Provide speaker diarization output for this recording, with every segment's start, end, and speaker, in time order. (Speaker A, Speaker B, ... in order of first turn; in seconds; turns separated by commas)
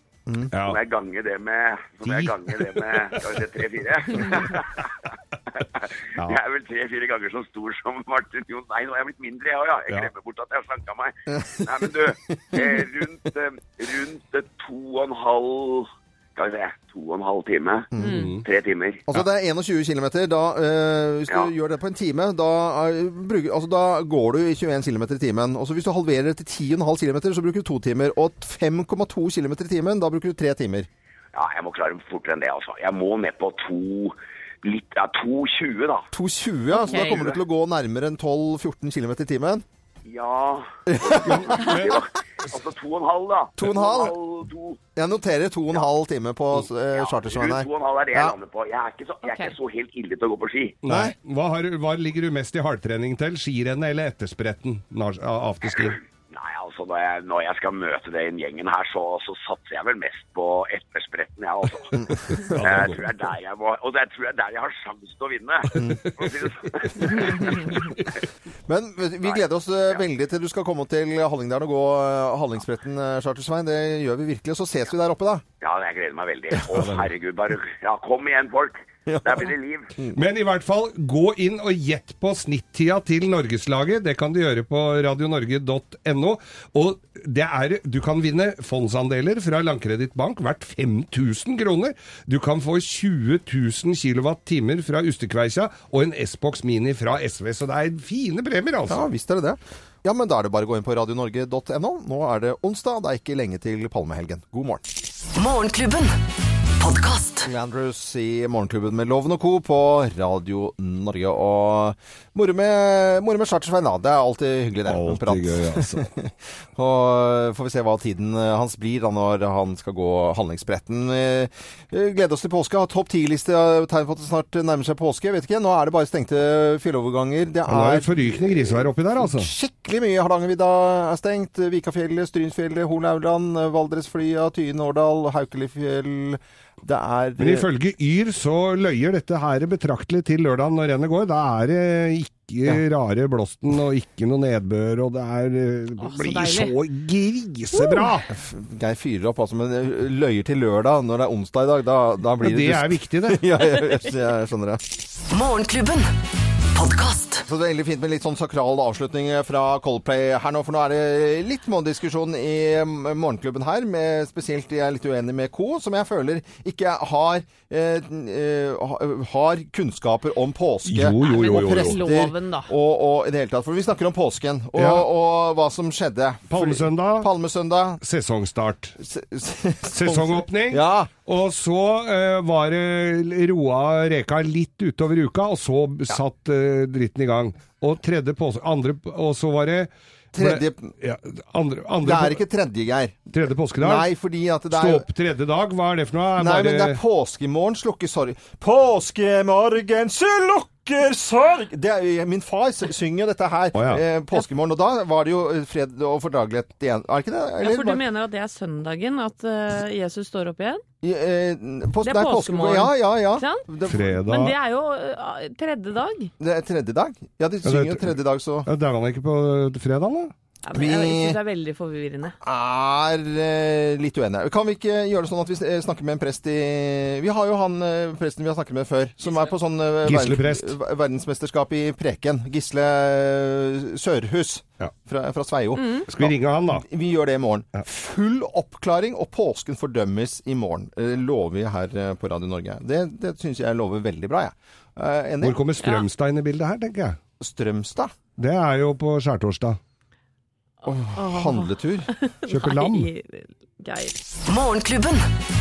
Speaker A: 0.3-0.5, Speaker B: 0.5-0.8, Speaker C: 0.6-17.9, Speaker B: 2.0-3.0, Speaker A: 11.3-11.8, Speaker A: 17.9-18.2, Speaker D: 18.0-18.4, Speaker B: 18.0-18.4, Speaker C: 18.4-19.0, Speaker A: 19.1-30.9, Speaker C: 31.3-36.1, Speaker A: 36.1-39.6, Speaker D: 36.7-37.3, Speaker C: 36.8-37.4, Speaker C: 40.1-44.8, Speaker A: 40.9-41.6, Speaker B: 41.1-42.0, Speaker A: 43.6-44.2, Speaker A: 45.0-48.4, Speaker C: 46.9-50.8, Speaker D: 49.2-49.6, Speaker B: 50.8-56.0, Speaker A: 50.9-51.1, Speaker C: 55.6-68.2, Speaker B: 62.3-63.1, Speaker A: 62.3-62.6, Speaker A: 65.8-66.1, Speaker B: 65.8-66.1, Speaker A: 68.7-75.4, Speaker C: 69.2-70.0, Speaker C: 75.6-79.9, Speaker A: 76.6-76.9, Speaker B: 76.7-77.1, Speaker A: 79.1-80.2, Speaker B: 80.1-99.0, Speaker A: 98.9-104.8, Speaker E: 105.3-106.2, Speaker E: 106.8-107.5, Speaker A: 107.5-137.7, Speaker B: 114.9-116.1, Speaker B: 127.7-129.5, Speaker B: 137.4-148.3, Speaker D: 146.0-146.7, Speaker D: 147.8-148.2, Speaker A: 148.3-154.8, Speaker B: 152.4-153.6, Speaker E: 155.3-156.1, Speaker E: 156.7-157.5, Speaker A: 157.5-178.0, Speaker B: 170.8-172.0, Speaker D: 171.2-172.7, Speaker B: 174.8-175.1, Speaker B: 176.5-177.3, Speaker B: 178.0-179.0, Speaker A: 179.0-181.1, Speaker B: 179.9-192.4, Speaker A: 190.3-190.9, Speaker A: 192.0-195.1, Speaker B: 193.3-194.1, Speaker B: 194.7-197.0, Speaker A: 196.4-208.0, Speaker B: 203.8-204.0, Speaker D: 207.6-210.8, Speaker A: 211.0-214.2, Speaker D: 212.0-213.6, Speaker B: 213.9-214.6, Speaker D: 214.2-216.3, Speaker A: 216.4-218.7, Speaker B: 217.6-218.1, Speaker B: 218.7-220.3, Speaker D: 220.7-222.4, Speaker A: 220.8-221.4, Speaker A: 222.4-245.6, Speaker B: 230.1-230.7, Speaker D: 235.8-236.1, Speaker B: 236.1-236.8, Speaker B: 245.4-247.2, Speaker A: 247.4-248.1, Speaker B: 248.4-249.8, Speaker D: 250.8-254.2, Speaker A: 250.9-252.1, Speaker B: 252.5-253.1, Speaker E: 254.4-255.3